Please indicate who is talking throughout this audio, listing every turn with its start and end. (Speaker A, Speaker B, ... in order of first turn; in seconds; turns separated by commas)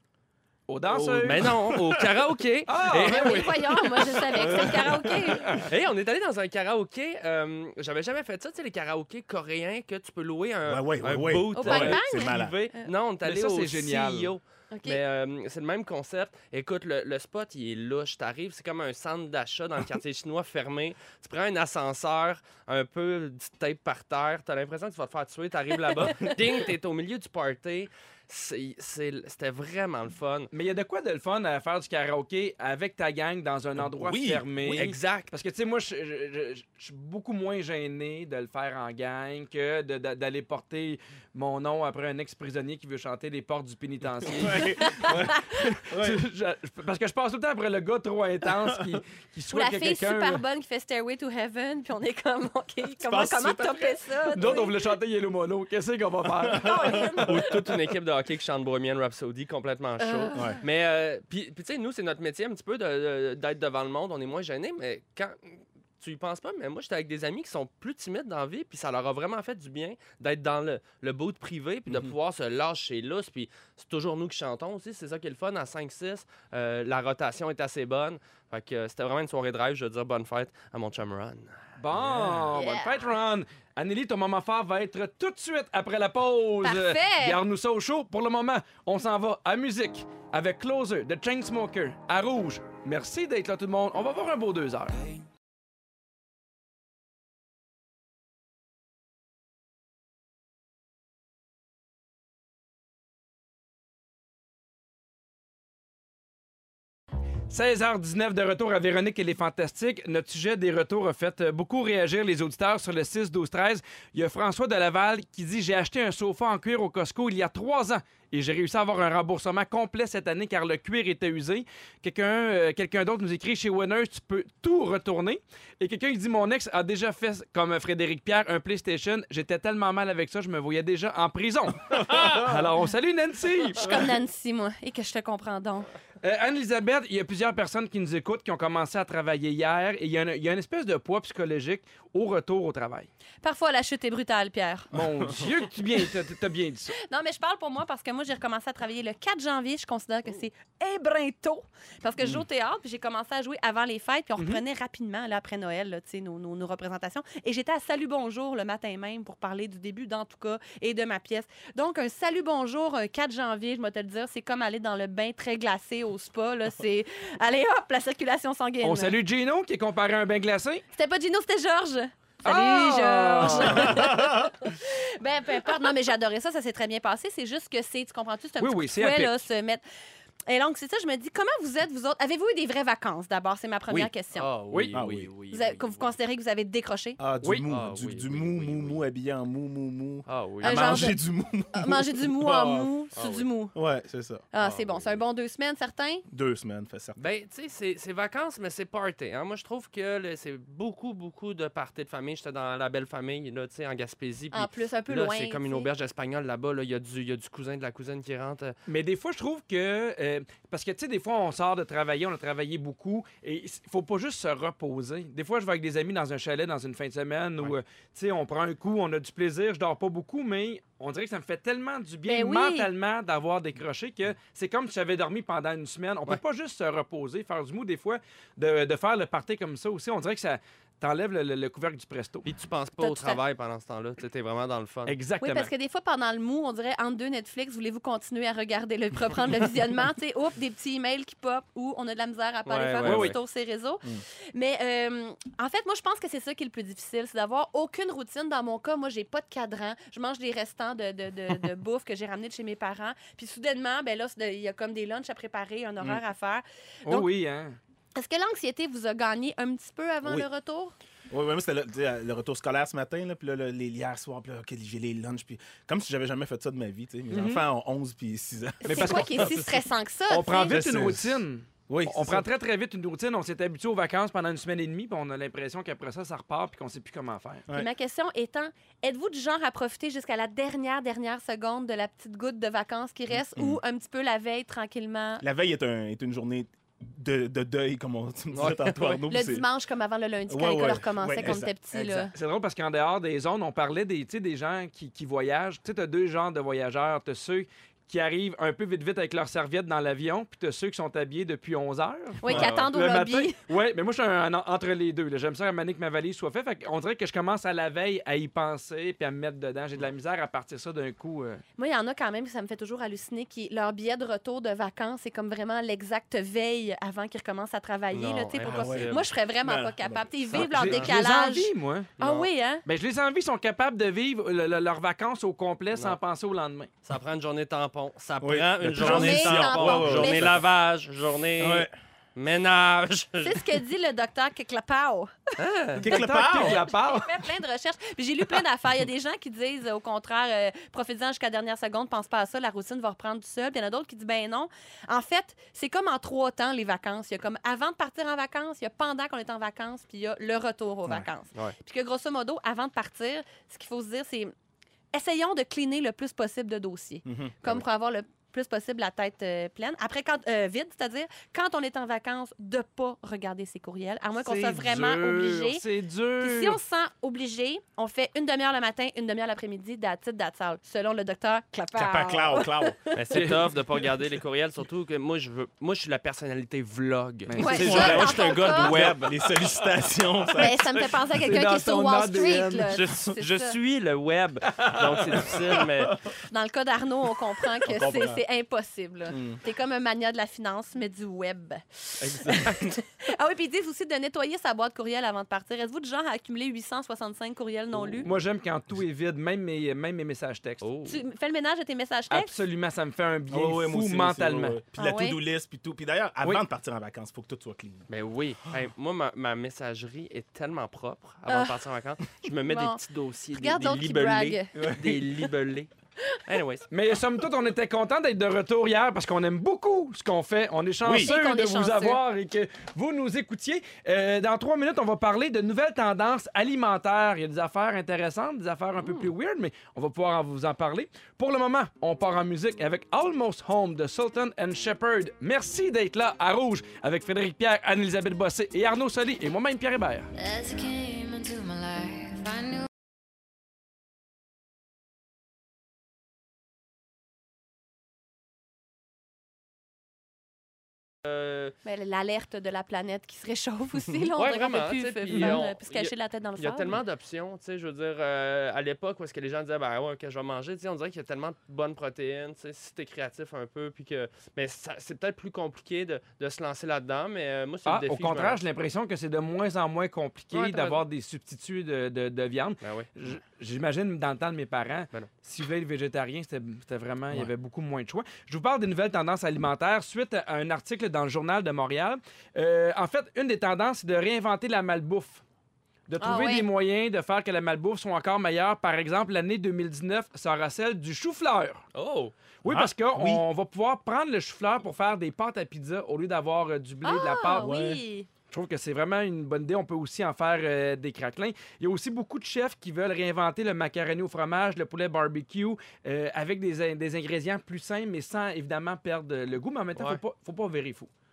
Speaker A: 0.7-1.6, Speaker B: 0.8-2.2, Speaker C: 1.2-4.7, Speaker A: 2.7-5.7, Speaker D: 3.0-5.5, Speaker C: 5.5-30.5, Speaker B: 10.7-12.6, Speaker D: 11.5-12.9, Speaker A: 13.2-14.3, Speaker D: 14.7-15.0, Speaker A: 30.5-50.4, Speaker B: 33.8-34.4, Speaker C: 34.6-35.3, Speaker B: 44.2-46.2, Speaker D: 49.5-54.8, Speaker B: 53.0-54.0, Speaker A: 54.3-57.3, Speaker B: 56.4-57.4, Speaker D: 56.5-57.6, Speaker C: 57.2-81.5, Speaker D: 60.0-60.6, Speaker B: 60.3-60.6, Speaker A: 81.8-95.1, Speaker B: 82.0-82.4, Speaker D: 82.5-83.1, Speaker D: 86.6-87.4, Speaker A: 107.5-134.1, Speaker B: 132.1-132.7, Speaker D: 133.8-135.9, Speaker A: 136.2-143.1, Speaker D: 143.4-144.9, Speaker A: 144.9-146.9, Speaker B: 144.9-145.6, Speaker D: 147.1-169.2, Speaker A: 154.4-154.6, Speaker A: 168.8-170.8, Speaker D: 170.9-179.8, Speaker A: 172.4-174.1, Speaker B: 173.6-174.6, Speaker A: 178.6-179.4, Speaker D: 180.5-184.5, Speaker C: 184.4-186.1, Speaker B: 184.9-185.3, Speaker D: 185.5-187.2, Speaker B: 187.2-192.9, Speaker C: 187.7-189.0, Speaker C: 190.3-191.0, Speaker D: 190.6-191.2, Speaker D: 191.7-193.7, Speaker C: 193.2-193.5, Speaker B: 193.7-194.4, Speaker D: 194.5-196.2, Speaker C: 194.6-195.2, Speaker B: 196.3-197.2, Speaker C: 197.2-208.7, Speaker D: 204.5-205.9, Speaker A: 208.9-232.5, Speaker D: 222.3-222.9, Speaker C: 232.4-235.2, Speaker D: 233.0-233.4, Speaker A: 235.1-235.7, Speaker D: 235.4-257.3, Speaker C: 242.7-243.4, Speaker A: 243.0-243.3, Speaker A: 257.1-257.8, Speaker D: 258.1-260.9, Speaker B: 261.3-269.5, Speaker A: 267.3-267.6, Speaker D: 268.8-270.8, Speaker A: 268.9-269.7, Speaker A: 270.3-277.6, Speaker B: 270.7-272.5, Speaker D: 277.7-285.4, Speaker B: 283.3-283.8, Speaker B: 285.4-289.6, Speaker C: 288.5-289.3, Speaker D: 289.3-292.3, Speaker B: 290.5-292.3, Speaker A: 292.3-311.6, Speaker D: 302.4-303.6, Speaker C: 302.5-302.9, Speaker D: 311.8-322.8, Speaker C: 318.1-319.3, Speaker B: 318.6-320.9, Speaker C: 320.5-321.1, Speaker A: 320.6-322.1, Speaker C: 322.2-322.5, Speaker A: 322.9-326.9, Speaker C: 325.9-326.2, Speaker C: 327.0-333.6, Speaker B: 328.4-330.7, Speaker D: 328.9-330.6, Speaker B: 331.6-331.9, Speaker D: 333.4-335.5, Speaker C: 335.6-336.0, Speaker A: 336.0-337.4, Speaker B: 336.0-336.8, Speaker D: 336.4-354.5, Speaker D: 355.1-365.8, Speaker B: 357.2-357.7, Speaker A: 364.4-366.8, Speaker D: 366.4-373.4, Speaker B: 371.9-373.1, Speaker C: 373.1-379.9, Speaker A: 373.3-373.7, Speaker A: 377.5-378.4, Speaker D: 377.6-379.0, Speaker B: 377.7-381.2, Speaker A: 378.9-379.2, Speaker D: 380.6-383.8, Speaker A: 381.3-383.0, Speaker C: 382.9-386.1, Speaker A: 384.8-386.1, Speaker D: 386.5-398.3, Speaker B: 387.8-388.4, Speaker B: 389.3-389.6, Speaker B: 392.2-392.9, Speaker C: 392.4-392.8, Speaker A: 398.2-400.8, Speaker C: 400.8-401.2, Speaker D: 401.1-402.6, Speaker A: 402.3-404.8, Speaker B: 403.5-408.1, Speaker D: 405.0-405.4, Speaker C: 408.1-415.9, Speaker D: 411.5-411.8, Speaker D: 412.6-413.0, Speaker D: 413.5-414.8, Speaker B: 414.7-415.4, Speaker C: 416.4-416.9, Speaker A: 416.9-440.3, Speaker B: 421.0-421.3, Speaker D: 421.1-422.2, Speaker E: 440.4-442.8, Speaker C: 451.2-451.8, Speaker D: 451.8-457.0, Speaker C: 454.4-468.6, Speaker A: 455.3-455.6, Speaker A: 467.9-485.4, Speaker C: 470.5-471.0, Speaker C: 472.8-473.1, Speaker A: 486.1-491.8, Speaker D: 486.2-486.7, Speaker C: 491.9-492.3, Speaker A: 492.6-497.7, Speaker B: 492.6-493.4, Speaker D: 497.0-498.3, Speaker B: 497.6-498.0, Speaker A: 498.5-511.1, Speaker C: 509.9-510.2